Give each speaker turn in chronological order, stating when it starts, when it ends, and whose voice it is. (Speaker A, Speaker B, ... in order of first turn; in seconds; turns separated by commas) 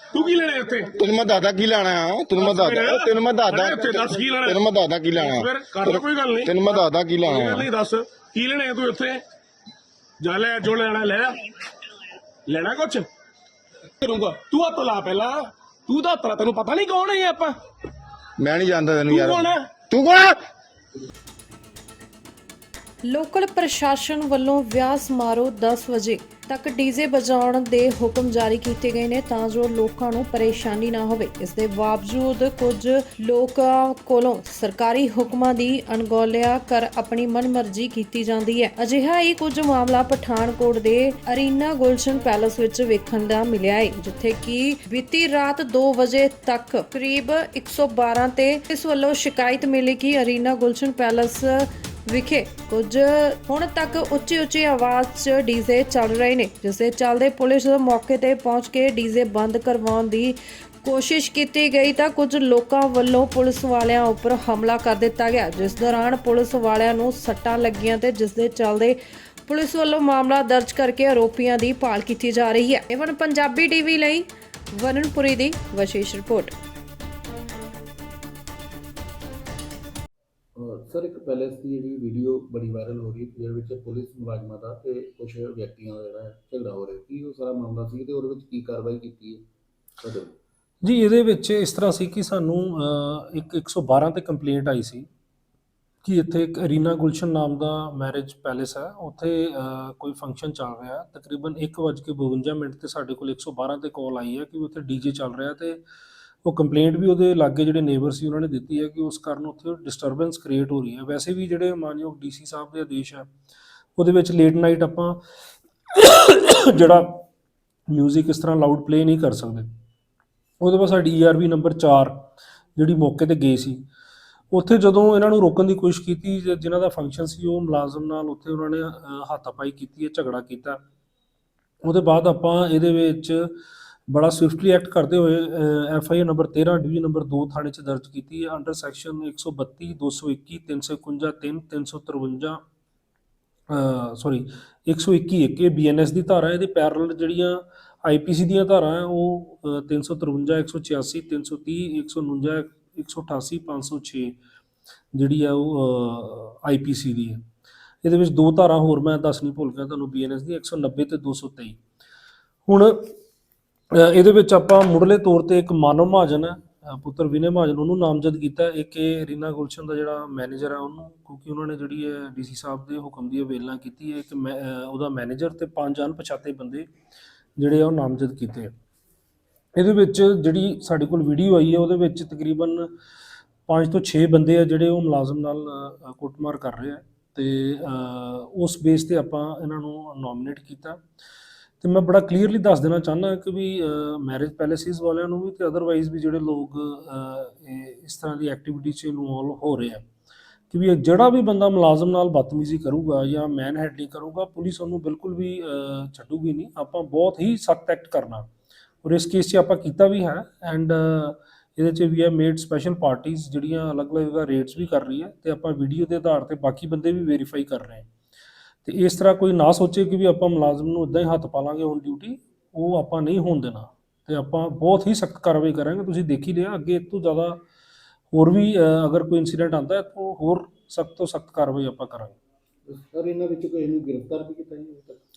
Speaker A: 0.1-0.9, Speaker B: 1.0-7.7, Speaker A: 2.4-4.6, Speaker A: 5.2-9.2, Speaker A: 10.2-11.4, Speaker A: 12.5-13.1, Speaker A: 14.0-17.6, Speaker B: 18.4-20.4, Speaker A: 19.1-19.7, Speaker C: 23.0-76.5, Speaker D: 80.6-89.5, Speaker D: 90.0-90.3, Speaker E: 90.8-95.1, Speaker E: 96.0-105.8, Speaker E: 106.4-113.3, Speaker E: 114.0-115.2, Speaker E: 115.9-117.2, Speaker E: 117.9-119.7, Speaker E: 120.6-122.2, Speaker E: 122.8-123.9, Speaker E: 124.5-130.8, Speaker E: 131.8-133.6, Speaker E: 134.1-142.6, Speaker E: 143.7-154.4, Speaker E: 155.1-157.4, Speaker E: 158.0-161.8, Speaker E: 162.7-163.0, Speaker E: 163.9-176.9, Speaker E: 177.6-178.7, Speaker E: 179.8-182.9, Speaker E: 183.7-191.0, Speaker E: 191.8-200.1, Speaker E: 200.7-208.5, Speaker E: 209.0-218.1, Speaker E: 218.8-227.6, Speaker E: 228.3-232.4, Speaker D: 232.9-235.2